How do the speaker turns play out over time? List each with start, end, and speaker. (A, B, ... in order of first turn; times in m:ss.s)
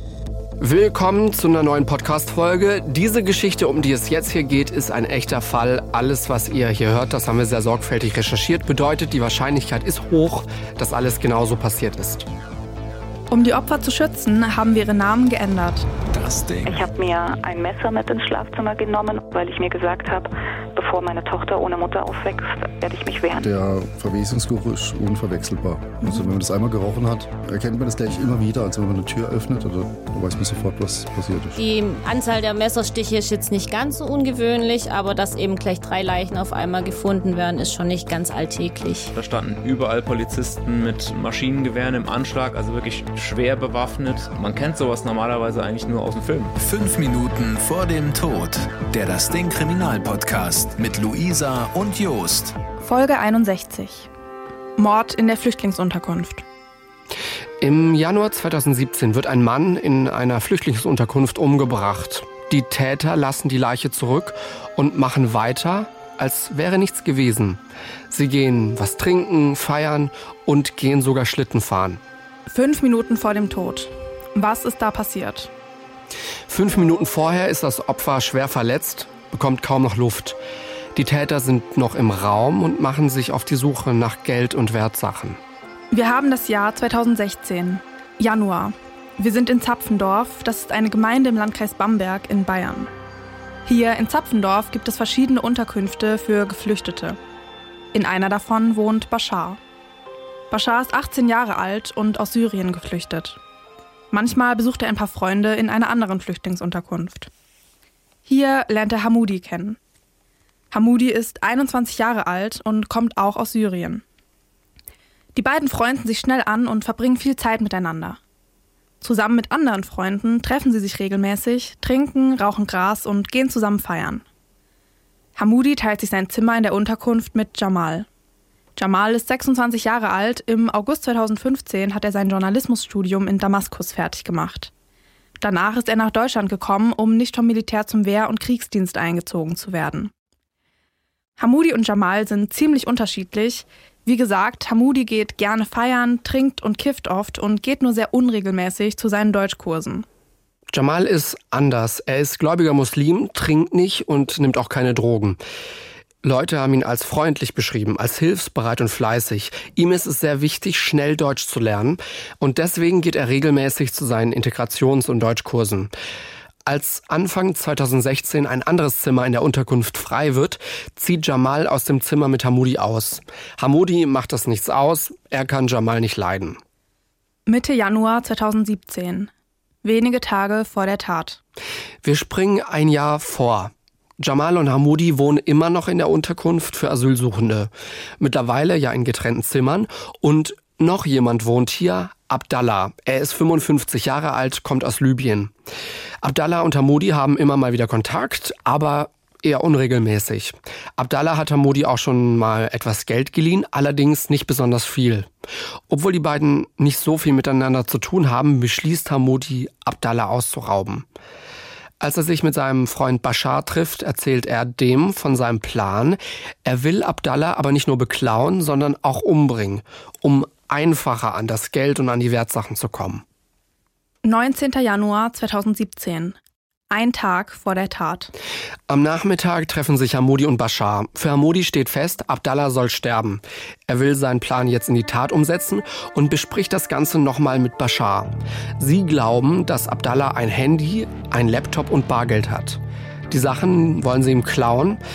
0:00.6-0:12.2 A
0:13.3-0:15.9 B
0:16.1-0:16.8 C
0:16.6-0:23.5 D
0:23.4-0:31.6 E
0:31.6-0:39.1 F
0:39.1-0:46.5 G
0:46.6-0:52.6 C
0:52.8-0:54.1 B
0:54.8-0:56.4 B
0:57.6-1:12.0 A
1:12.5-1:15.5 B
1:16.5-1:20.4 A
1:20.9-1:25.4 A
1:25.9-1:32.9 B
1:33.7-1:37.2 B
1:37.9-1:39.6 B
1:40.5-1:43.4 B
1:44.1-1:47.3 B
1:48.2-1:49.8 B
1:50.7-1:54.0 B
1:55.3-1:58.2 B
1:59.0-2:04.2 B
2:05.4-2:08.1 B
2:08.8-2:14.7 B
2:15.4-2:20.1 B
2:21.4-2:30.1 B
2:30.7-2:35.4 A
2:36.2-2:45.9 A
2:46.7-2:56.6 A
2:57.5-2:59.3 B
2:59.8-3:01.4 B
3:02.0-3:15.5 A
3:16.2-3:25.3 A
3:25.9-3:31.1 A
3:32.0-3:43.2 A
3:44.2-3:46.4 B
3:46.9-3:48.3 B
3:48.9-4:05.0 A